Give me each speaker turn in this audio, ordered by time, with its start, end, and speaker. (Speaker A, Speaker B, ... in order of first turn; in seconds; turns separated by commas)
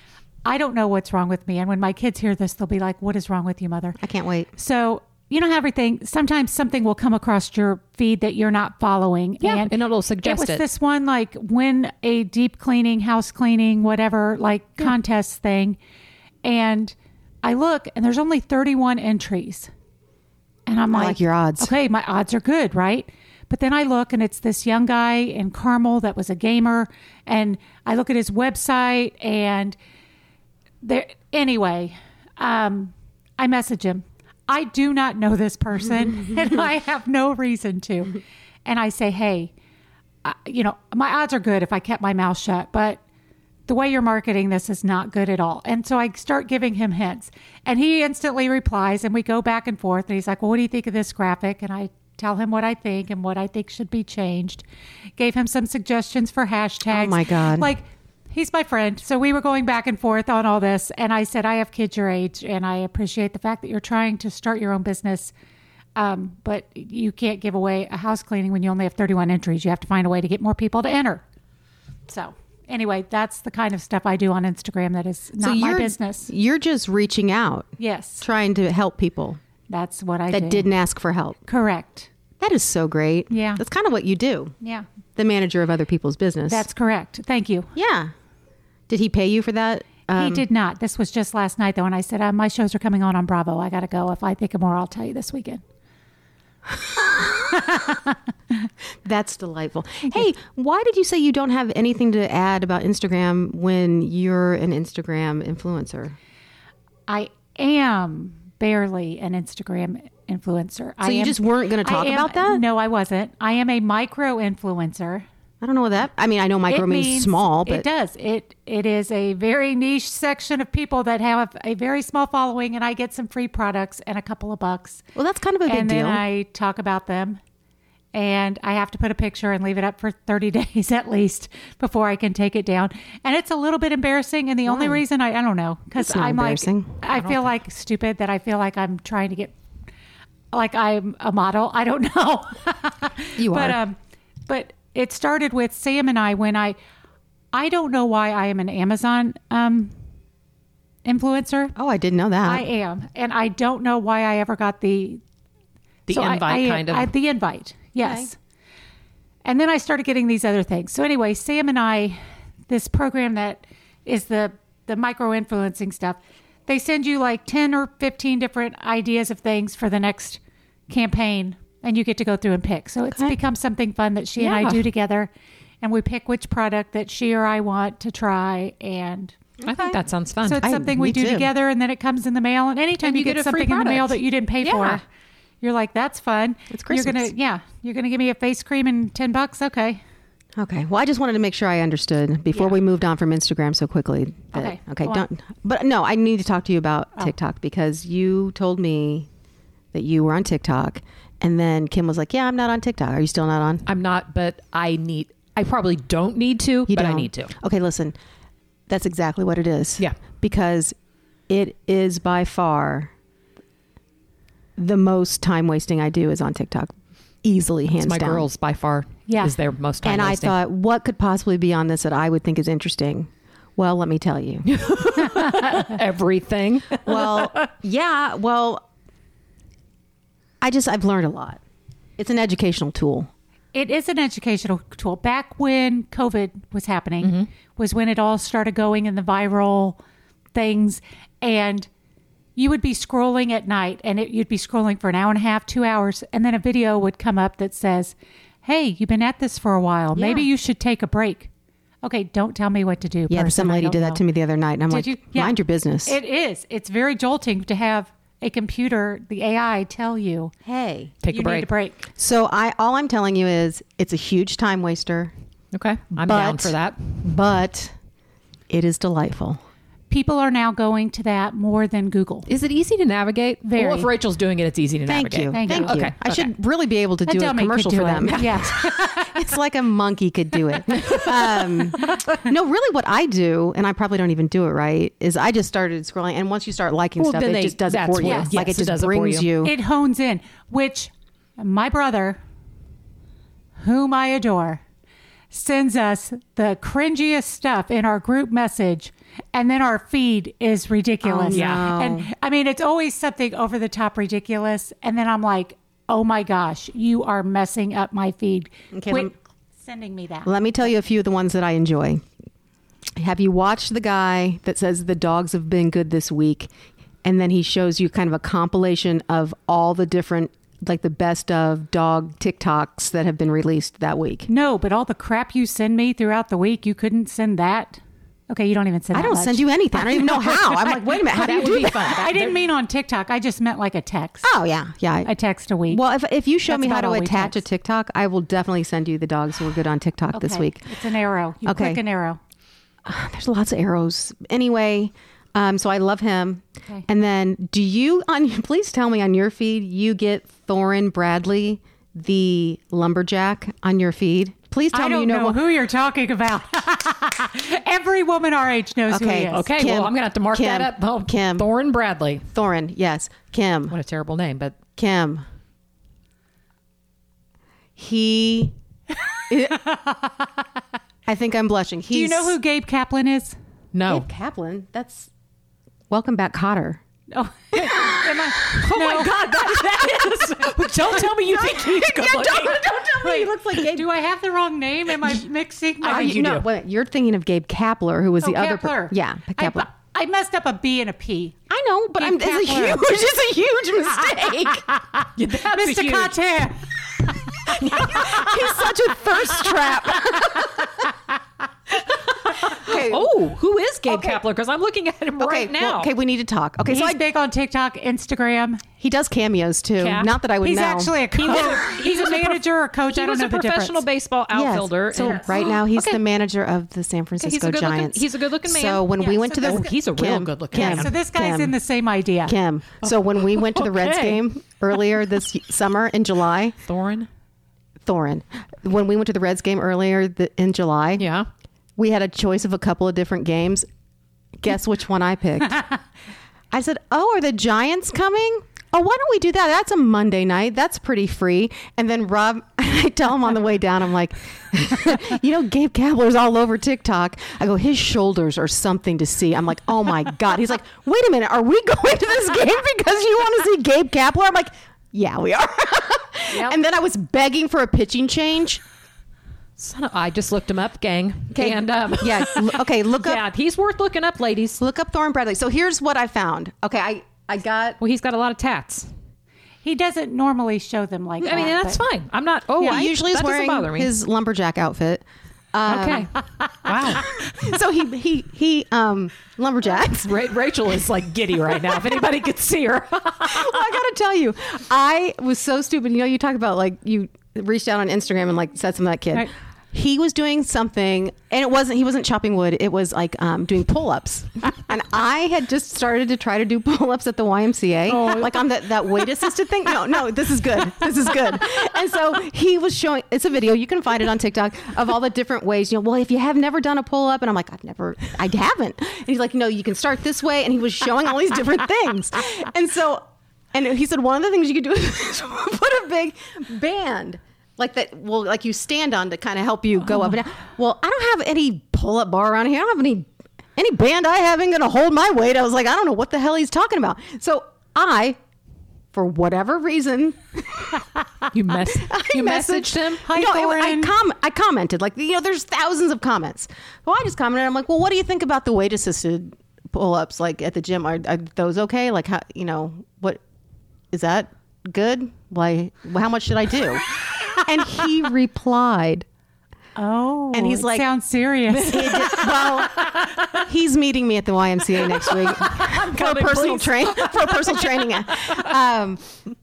Speaker A: 0.5-4.0, Speaker B: 4.0-4.5, Speaker A: 4.6-15.8, Speaker C: 9.4-10.6, Speaker A: 16.4-19.7, Speaker A: 20.7-29.8, Speaker B: 20.9-21.7, Speaker A: 30.8-39.5, Speaker A: 40.2-43.0, Speaker A: 43.7-54.6, Speaker A: 55.2-65.3, Speaker B: 56.9-57.7, Speaker A: 66.0-71.2, Speaker A: 72.1-76.3, Speaker B: 75.4-79.4, Speaker A: 77.8-78.2, Speaker A: 79.7-80.7, Speaker B: 80.3-81.4, Speaker A: 81.5-82.1, Speaker B: 82.4-84.5, Speaker A: 83.3-83.6, Speaker A: 84.6-84.9, Speaker B: 85.2-86.7, Speaker A: 86.5-87.7, Speaker B: 87.8-88.1, Speaker B: 88.9-90.4, Speaker A: 90.1-95.6, Speaker B: 96.7-97.8, Speaker B: 99.0-106.2, Speaker A: 107.1-115.3, Speaker B: 111.0-112.6, Speaker B: 115.6-117.8, Speaker A: 116.7-125.0, Speaker B: 125.2-126.2, Speaker A: 125.7-127.4, Speaker A: 128.1-139.6, Speaker B: 134.7-135.0, Speaker B: 136.0-136.9, Speaker C: 137.1-137.4, Speaker A: 140.5-144.0, Speaker B: 143.4-143.8, Speaker A: 144.5-146.8, Speaker A: 147.5-149.9, Speaker A: 151.1-151.7, Speaker B: 151.8-152.7, Speaker A: 152.4-155.2, Speaker C: 156.1-157.1, Speaker A: 156.1-158.4, Speaker B: 158.0-158.3, Speaker A: 159.4-175.3, Speaker C: 174.4-174.8, Speaker A: 175.8-179.3, Speaker B: 179.6-180.0, Speaker C: 179.7-180.6, Speaker A: 180.4-185.0, Speaker B: 180.6-181.5, Speaker C: 183.0-185.0, Speaker A: 185.6-190.0, Speaker B: 186.7-187.3, Speaker B: 190.6-199.3, Speaker A: 194.5-195.2, Speaker B: 199.9-203.9, Speaker C: 203.9-207.5, Speaker B: 206.9-208.2, Speaker B: 208.9-210.9, Speaker B: 211.5-213.1, Speaker B: 214.8-216.9, Speaker B: 217.4-218.5, Speaker C: 218.0-220.6, Speaker A: 219.3-219.5, Speaker B: 220.0-224.7, Speaker C: 224.7-227.7, Speaker B: 227.1-228.8, Speaker B: 230.6-231.6, Speaker B: 232.2-233.3, Speaker A: 233.7-240.0, Speaker C: 237.2-237.5, Speaker A: 240.5-241.9, Speaker A: 242.6-251.5, Speaker A: 252.0-254.2, Speaker B: 253.3-256.2, Speaker A: 254.9-260.5, Speaker B: 260.6-261.2, Speaker C: 261.2-261.7, Speaker A: 261.3-262.0, Speaker B: 262.1-265.3, Speaker C: 265.7-267.2, Speaker B: 266.2-267.9, Speaker B: 268.7-269.6, Speaker A: 270.1-272.5, Speaker C: 272.5-276.5, Speaker A: 273.6-274.1, Speaker B: 275.1-289.7, Speaker A: 275.5-276.0, Speaker A: 277.3-279.4, Speaker C: 287.2-289.5, Speaker A: 288.2-288.5, Speaker A: 289.6-292.4, Speaker A: 293.8-294.8, Speaker A: 295.5-310.5, Speaker B: 301.2-302.3, Speaker C: 301.5-301.9, Speaker B: 308.9-309.3, Speaker B: 310.4-312.2, Speaker B: 313.2-316.7, Speaker B: 317.2-324.5, Speaker A: 324.5-334.5, Speaker B: 329.1-332.3, Speaker C: 331.3-332.6, Speaker B: 334.4-335.3, Speaker A: 335.2-336.0, Speaker B: 335.9-340.9, Speaker A: 336.7-337.6, Speaker A: 340.3-342.4, Speaker B: 341.6-342.0, Speaker B: 343.1-355.6, Speaker A: 354.9-359.7, Speaker B: 359.1-361.7, Speaker C: 359.5-362.5, Speaker B: 362.5-364.0, Speaker C: 363.9-364.8, Speaker B: 364.9-365.4, Speaker B: 368.0-368.8, Speaker B: 369.5-369.8, Speaker A: 369.9-370.3, Speaker B: 371.3-372.6, Speaker A: 372.1-373.6, Speaker C: 373.9-374.3, Speaker B: 374.1-375.3, Speaker B: 376.1-377.0, Speaker A: 377.3-379.4, Speaker C: 378.7-382.9, Speaker B: 381.4-384.1, Speaker A: 383.2-386.4, Speaker C: 386.0-386.7, Speaker B: 386.0-389.9, Speaker A: 388.4-391.6, Speaker B: 391.7-394.9, Speaker A: 392.2-393.0, Speaker A: 395.2-396.8, Speaker C: 395.4-396.4, Speaker B: 397.7-400.9, Speaker C: 397.8-398.6, Speaker B: 402.4-403.3, Speaker C: 402.5-406.1, Speaker B: 404.1-404.4, Speaker B: 405.4-407.2, Speaker A: 406.9-408.8, Speaker B: 409.0-411.7, Speaker C: 410.0-410.3, Speaker A: 410.6-414.0, Speaker C: 411.4-416.2, Speaker B: 414.5-421.8, Speaker C: 417.4-421.2, Speaker A: 419.2-419.9, Speaker A: 420.7-422.6, Speaker B: 422.5-426.8, Speaker C: 423.0-424.4, Speaker C: 426.9-427.3, Speaker B: 428.1-431.3, Speaker C: 431.2-431.5, Speaker B: 432.0-433.9, Speaker B: 434.6-435.9, Speaker B: 436.7-458.8, Speaker C: 456.5-456.8, Speaker C: 459.8-464.8, Speaker B: 461.5-463.4, Speaker B: 464.8-468.0, Speaker C: 468.0-469.1, Speaker A: 469.8-472.0, Speaker C: 471.4-474.1, Speaker A: 472.8-473.1, Speaker B: 472.8-476.3, Speaker C: 475.9-476.3, Speaker C: 476.8-477.4, Speaker B: 477.2-480.4, Speaker C: 480.2-483.8, Speaker B: 483.4-528.4, Speaker C: 498.1-498.6, Speaker B: 529.1-531.1, Speaker C: 531.5-533.2, Speaker B: 531.9-543.4, Speaker A: 533.2-534.1, Speaker B: 544.1-549.3, Speaker A: 550.0-552.4, Speaker B: 550.5-551.1, Speaker B: 551.7-559.2, Speaker C: 551.9-553.5, Speaker C: 555.0-558.7